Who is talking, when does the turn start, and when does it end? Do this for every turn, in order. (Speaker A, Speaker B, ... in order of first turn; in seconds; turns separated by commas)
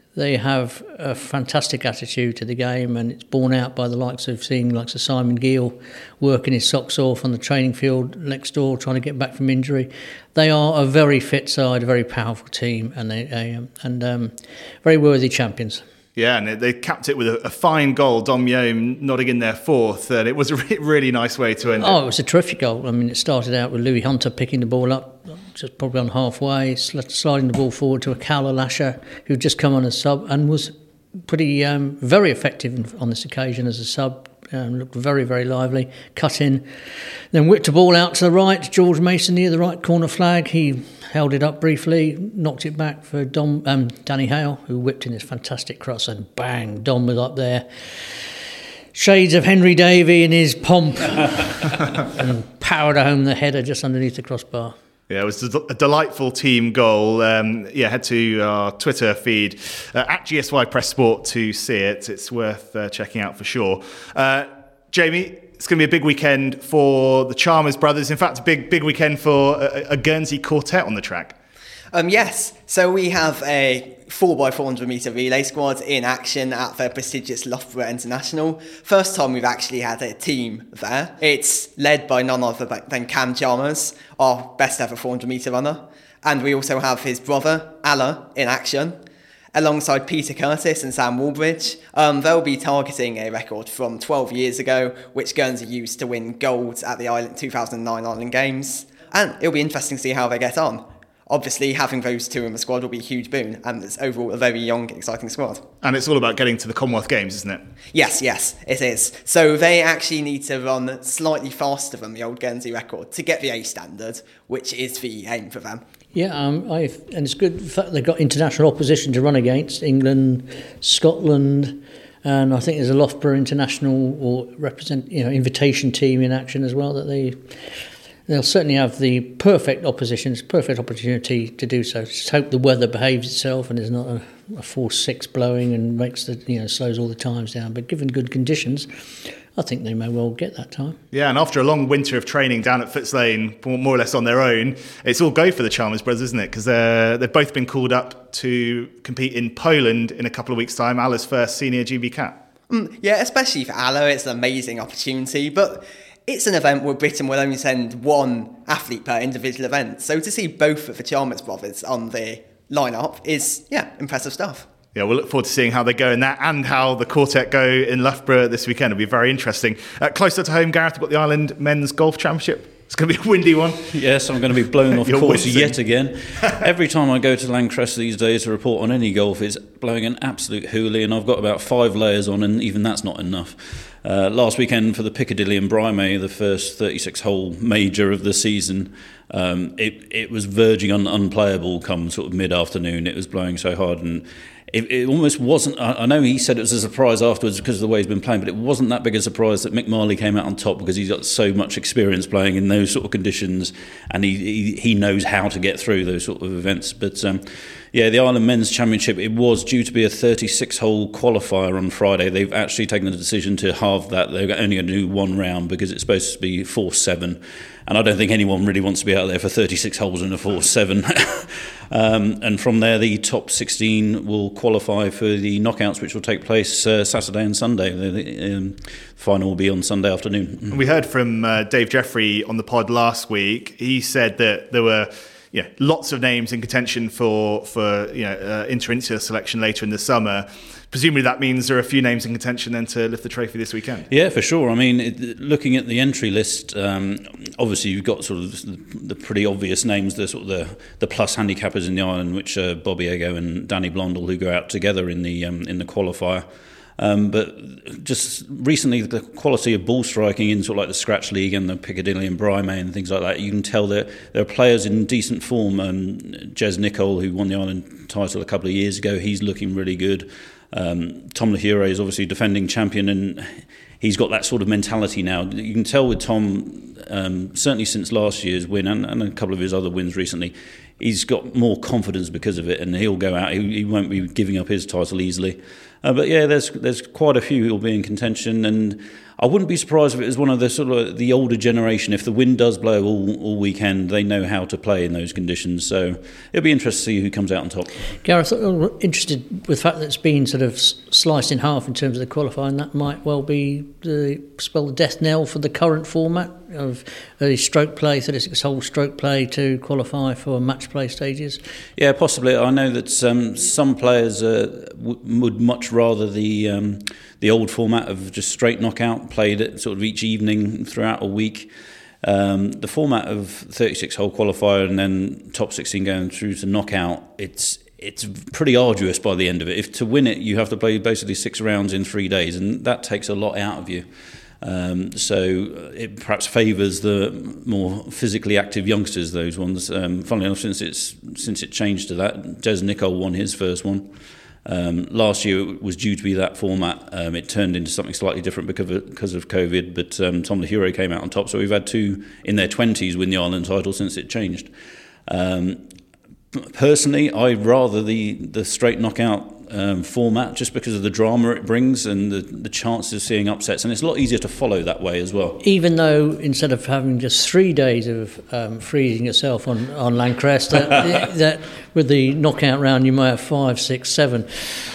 Speaker A: 0.1-15.8, Speaker B: 16.1-22.0, Speaker A: 21.8-36.7, Speaker A: 37.3-48.3, Speaker A: 48.9-54.7, Speaker B: 55.1-71.3, Speaker C: 71.9-89.0, Speaker C: 89.5-105.7, Speaker B: 105.8-107.7, Speaker C: 107.9-115.8, Speaker A: 116.1-138.9, Speaker A: 139.5-141.0, Speaker B: 141.1-152.4, Speaker C: 152.7-164.7, Speaker B: 164.9-173.9, Speaker D: 173.9-230.8, Speaker B: 174.9-175.8, Speaker B: 230.7-244.1, Speaker D: 244.1-256.4, Speaker D: 257.0-298.1, Speaker A: 298.2-311.6, Speaker D: 312.0-321.7, Speaker D: 322.2-334.1, Speaker D: 334.6-344.1, Speaker D: 344.6-354.7, Speaker D: 355.3-355.8, Speaker D: 356.5-365.6, Speaker A: 365.6-374.5